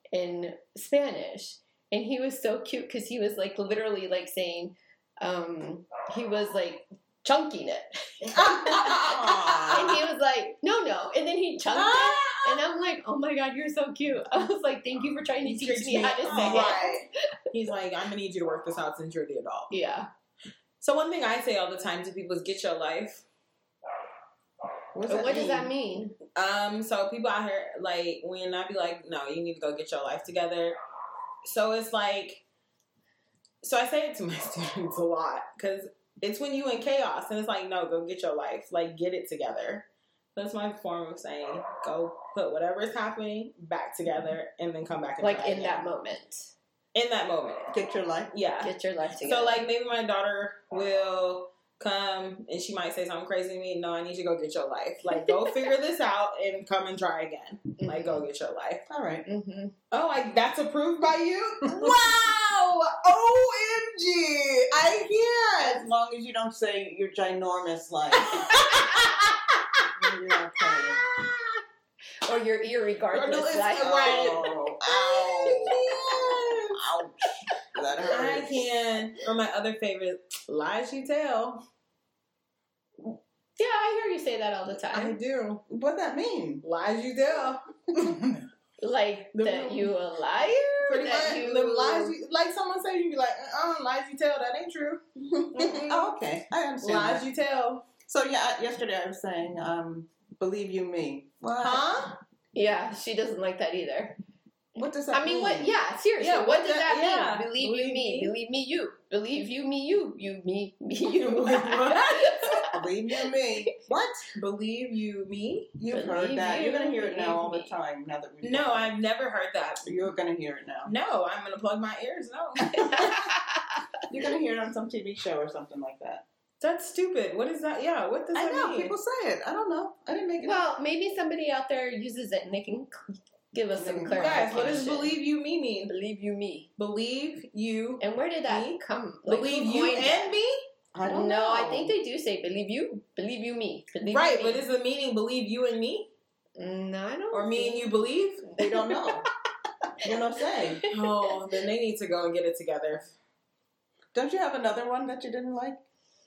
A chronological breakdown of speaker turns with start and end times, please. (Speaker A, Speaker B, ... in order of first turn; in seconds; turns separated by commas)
Speaker A: 0.1-9.1, Speaker B: 8.4-10.0, Speaker C: 8.4-10.0, Speaker A: 9.7-17.0, Speaker B: 11.8-12.6, Speaker B: 15.4-19.7, Speaker C: 16.2-16.9, Speaker A: 19.7-20.1, Speaker B: 20.8-23.2, Speaker C: 24.9-25.7, Speaker A: 25.1-26.2, Speaker B: 26.4-30.8, Speaker B: 31.4-32.4, Speaker B: 33.6-45.8, Speaker A: 45.2-46.5, Speaker B: 46.9-47.8, Speaker C: 47.7-48.3, Speaker B: 48.3-58.8, Speaker A: 48.6-49.6, Speaker A: 55.1-55.5, Speaker A: 57.8-58.2, Speaker C: 58.9-59.2, Speaker A: 59.3-59.7, Speaker B: 59.9-65.8, Speaker C: 65.6-68.5, Speaker B: 68.2-69.8, Speaker C: 69.9-71.0, Speaker B: 70.7-71.5, Speaker A: 72.2-74.5, Speaker B: 73.1-74.5, Speaker C: 73.6-78.7, Speaker A: 75.1-75.7, Speaker B: 75.2-76.7, Speaker B: 78.0-81.7, Speaker A: 83.6-85.2, Speaker B: 84.9-85.6, Speaker C: 85.7-86.6, Speaker B: 86.6-88.3, Speaker C: 87.9-88.4, Speaker A: 88.8-92.1, Speaker B: 89.3-89.9, Speaker B: 90.9-95.0, Speaker C: 95.2-97.2, Speaker B: 95.5-96.1, Speaker B: 96.8-97.9, Speaker C: 98.1-101.9, Speaker B: 101.6-102.2, Speaker A: 102.5-104.2, Speaker C: 104.8-105.8, Speaker A: 105.1-112.8, Speaker B: 106.2-108.3, Speaker B: 111.1-112.6, Speaker C: 112.7-114.3, Speaker B: 114.3-115.7, Speaker C: 115.8-118.9, Speaker A: 115.9-117.8, Speaker B: 118.4-119.9, Speaker C: 119.8-120.9, Speaker B: 120.8-123.2, Speaker A: 122.7-123.7, Speaker C: 124.1-126.2, Speaker B: 126.6-128.9, Speaker C: 128.3-130.6, Speaker A: 130.4-135.2, Speaker C: 133.8-134.9, Speaker B: 134.1-135.9, Speaker A: 135.9-136.7, Speaker B: 136.8-140.6, Speaker A: 138.0-140.3, Speaker C: 140.9-141.9, Speaker A: 141.1-144.6, Speaker B: 144.1-146.1, Speaker A: 146.6-147.9, Speaker B: 147.3-148.5, Speaker A: 148.5-149.0, Speaker C: 148.6-149.3, Speaker C: 150.0-150.8, Speaker A: 150.6-151.1, Speaker B: 150.9-153.1, Speaker C: 154.1-155.8